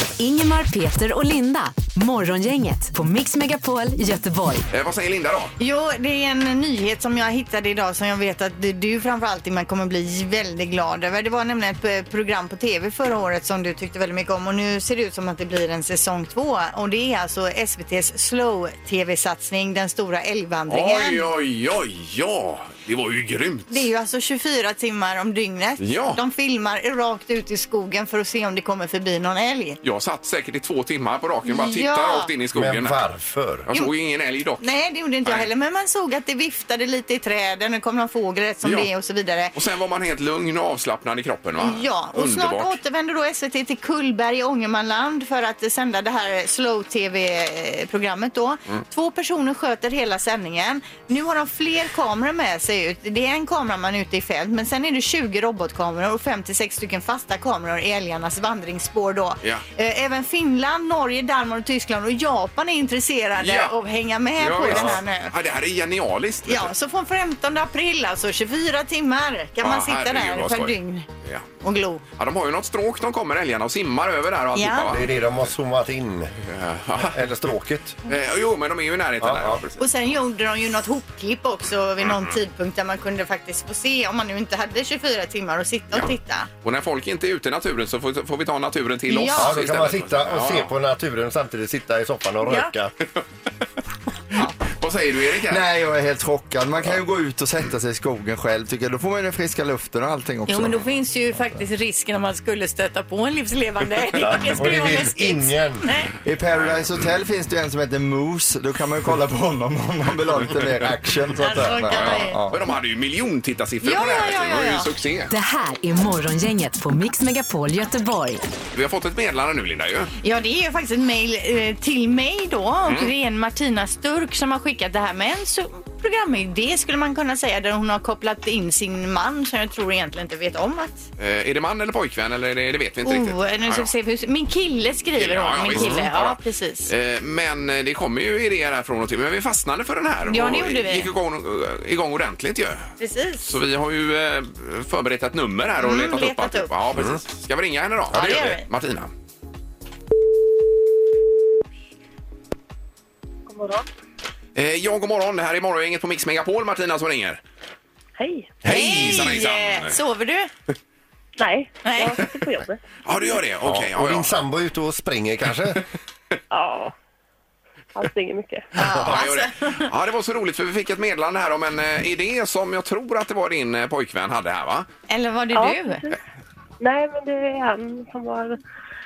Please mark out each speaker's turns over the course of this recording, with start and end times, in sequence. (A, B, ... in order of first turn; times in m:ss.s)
0:00.2-0:04.6 A
0:04.7-0:05.5 B
0:05.6-0:21.2 C
0:20.7-0:23.8 B
0:23.7-0:29.8 C
0:25.8-0:26.2 B
0:29.8-0:33.0 B
0:31.4-0:32.3 C
0:32.5-0:33.7 D
0:33.7-0:34.6 B
0:34.6-0:39.5 C
0:38.6-0:38.9 B
0:39.5-0:42.8 B
0:41.6-1:05.3 C
1:03.4-1:03.7 B
1:04.4-1:06.7 B
1:06.4-1:11.1 C
1:09.6-1:11.5 B
1:11.6-1:12.0 C
1:12.2-1:15.1 B
1:14.5-1:14.9 C
1:14.9-1:16.3 D
1:16.4-1:17.2 B
1:17.0-1:18.0 D
1:18.0-1:19.9 B
1:19.2-1:19.6 D
1:19.8-1:26.5 C
1:25.9-1:30.7 B
1:29.1-1:29.5 C
1:29.3-1:32.9 D
1:32.4-1:32.7 C
1:34.4-1:35.6 B
1:35.4-1:40.8 E
1:40.5-1:46.1 C
1:44.2-1:45.8 D
1:46.2-1:52.6 E
1:51.4-1:52.4 C
1:52.5-1:55.3 B
1:53.8-1:54.9 C
1:55.3-1:58.4 A
1:58.7-2:00.1 B
2:00.2-2:11.1 C
2:11.2-2:13.9 B
2:13.0-2:16.9 C
2:15.1-2:22.9 B
2:20.3-2:21.1 C
2:23.0-2:23.5 C
2:23.4-2:29.1 B
2:25.8-2:26.7 C
2:26.9-2:27.2 D
2:28.1-2:28.6 C
2:33.5-2:33.9 F
2:34.5-2:37.4 B
2:38.2-2:38.5 F
2:38.6-2:40.0 B
2:38.6-2:40.5 C
2:41.4-2:42.8 F
2:41.8-2:42.2 C
2:43.0-2:44.3 B
2:43.6-2:45.8 D
2:46.5-2:46.9 F
2:47.9-2:48.7 F
2:48.7-2:49.9 C
2:48.9-2:49.1 D
2:48.9-2:54.9 B
2:55.1-2:56.0 C
2:55.5-2:56.2 F
2:56.8-2:58.6 F